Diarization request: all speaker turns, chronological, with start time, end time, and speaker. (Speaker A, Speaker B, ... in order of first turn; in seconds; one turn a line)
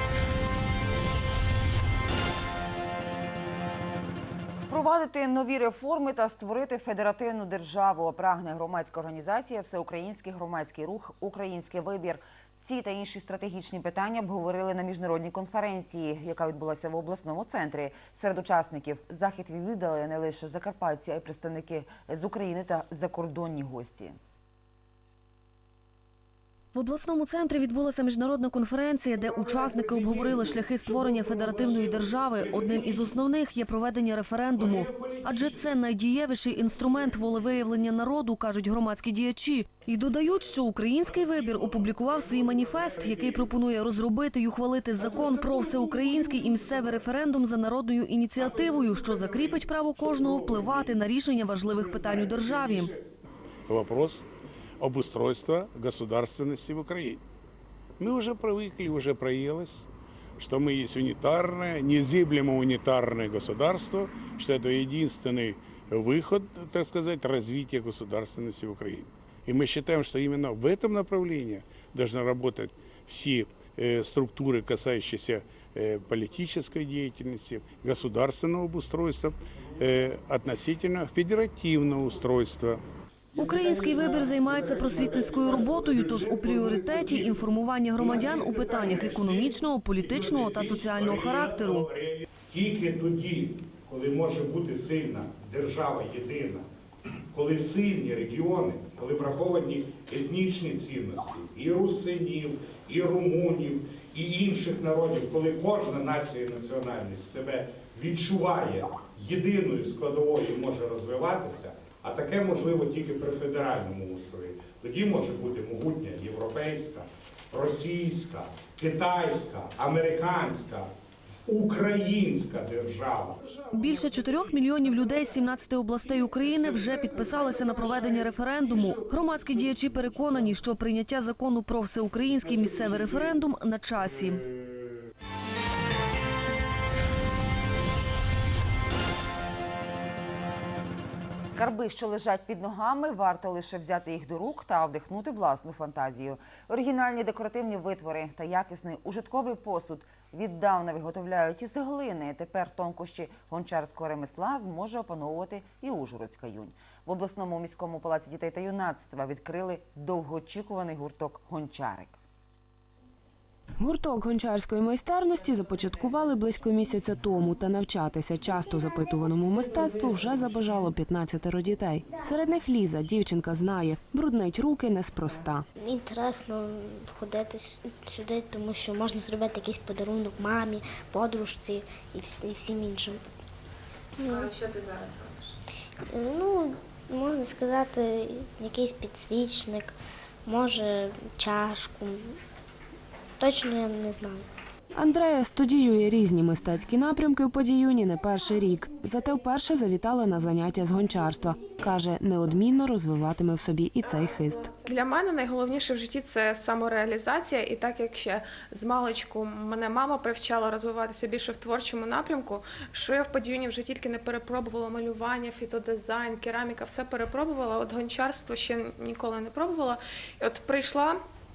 Speaker A: 4.7-24.2
Speaker B: 26.7-52.9
Speaker C: 29.1-33.1
Speaker C: 34.5-35.7
Speaker D: 53.7-54.2
Speaker D: 54.8-57.2
Speaker D: 58.0-59.9
Speaker D: 60.4-82.8
Speaker B: 83.3-91.9
Speaker C: 83.3-96.6
Speaker C: 97.3-120.9
Speaker C: 121.5-123.3
Speaker B: 123.7-134.4
Speaker A: 141.5-162.2
Speaker E: 163.8-175.7
Speaker F: 175.8-183.2
Speaker F: 184.2-184.7
Speaker F: 186.1-192.3
Speaker F: 193.4-194.4
Speaker E: 194.9-204.7
Speaker G: 204.8-221.2